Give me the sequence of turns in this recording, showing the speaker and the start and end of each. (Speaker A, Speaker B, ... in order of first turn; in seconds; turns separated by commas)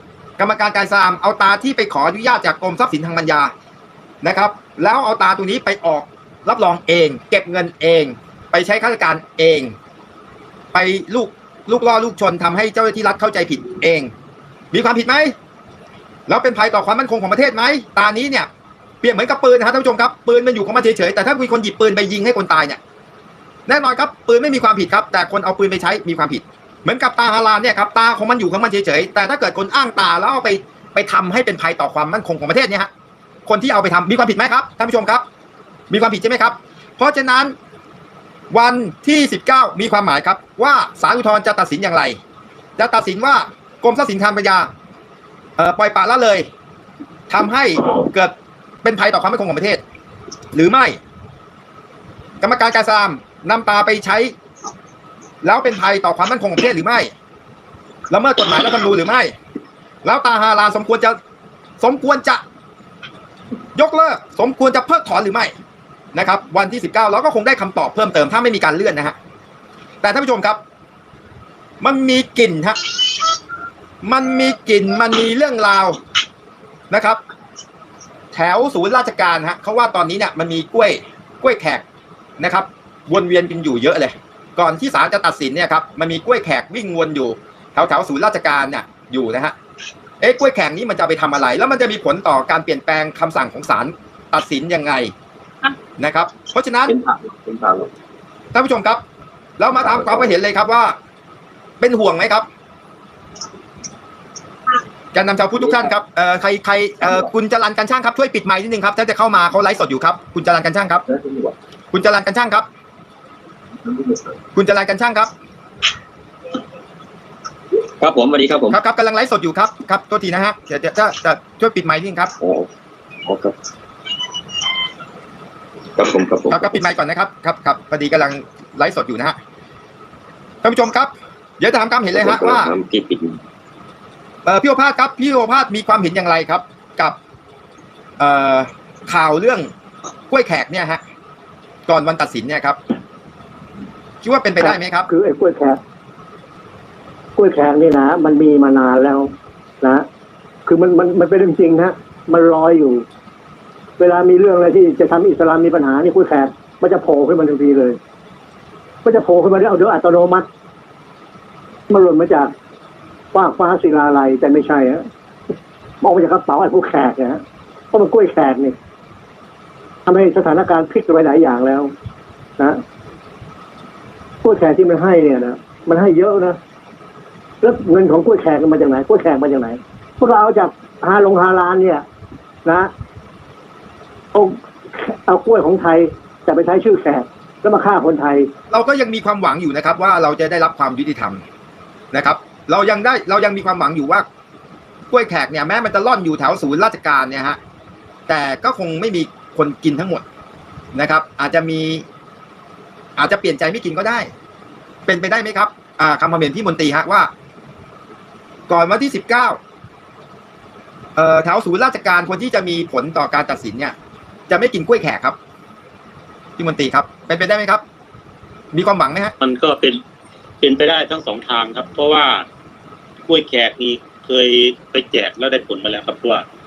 Speaker A: 0.4-3.5, Speaker A: 4.2-9.7, Speaker A: 10.7-14.1, Speaker A: 14.7-15.3, Speaker A: 16.3-18.5, Speaker A: 19.0-22.8, Speaker A: 23.7-32.9, Speaker A: 33.5-35.2, Speaker A: 35.9-37.5, Speaker A: 38.5-42.2, Speaker A: 42.8-44.7, Speaker A: 45.6-46.5, Speaker A: 47.3-49.8, Speaker A: 50.5-51.0, Speaker A: 52.4-54.3, Speaker A: 55.4-57.1, Speaker A: 58.1-59.3, Speaker A: 60.0-61.2, Speaker A: 61.8-62.4, Speaker A: 63.8-65.5, Speaker A: 66.1-69.1, Speaker A: 70.0-70.6, Speaker A: 71.8-72.8, Speaker A: 74.0-76.0, Speaker A: 76.9-77.2, Speaker A: 78.3-81.8, Speaker A: 82.4-89.5, Speaker A: 90.2-95.1, Speaker A: 96.0-97.0, Speaker B: 96.9-97.9, Speaker A: 98.5-99.0, Speaker A: 99.6-101.0, Speaker B: 99.8-100.3, Speaker A: 101.8-102.5, Speaker A: 105.1-111.0, Speaker B: 111.2-111.5, Speaker A: 111.9-112.7, Speaker A: 114.5-115.3, Speaker B: 118.0-118.8, Speaker A: 118.7-122.3, Speaker B: 122.4-122.7, Speaker B: 123.2-123.5, Speaker B: 126.0-126.8, Speaker A: 126.5-129.4, Speaker A: 130.6-132.7, Speaker B: 132.1-133.4, Speaker A: 134.4-137.2, Speaker A: 138.2-139.7, Speaker A: 140.3-141.0, Speaker A: 141.9-142.8, Speaker A: 144.2-145.1, Speaker C: 144.6-145.8, Speaker C: 147.3-150.1, Speaker C: 150.7-153.0, Speaker C: 154.0-158.0, Speaker C: 159.0-160.5, Speaker C: 161.9-162.5, Speaker C: 163.3-165.1, Speaker C: 166.0-167.4, Speaker C: 167.9-168.8, Speaker C: 170.0-171.9, Speaker C: 174.4-176.6, Speaker C: 177.6-182.0, Speaker C: 182.6-182.9, Speaker C: 184.3-188.5, Speaker A: 188.7-191.4, Speaker A: 192.1-194.2, Speaker A: 195.1-197.6, Speaker A: 198.3-200.2, Speaker A: 200.9-202.0, Speaker A: 203.2-204.3, Speaker A: 205.1-207.3, Speaker A: 208.7-209.6, Speaker A: 211.2-213.9, Speaker A: 214.5-215.3, Speaker A: 216.6-217.8, Speaker A: 218.7-219.3, Speaker D: 219.4-220.0, Speaker D: 220.6-222.4, Speaker D: 223.3-226.4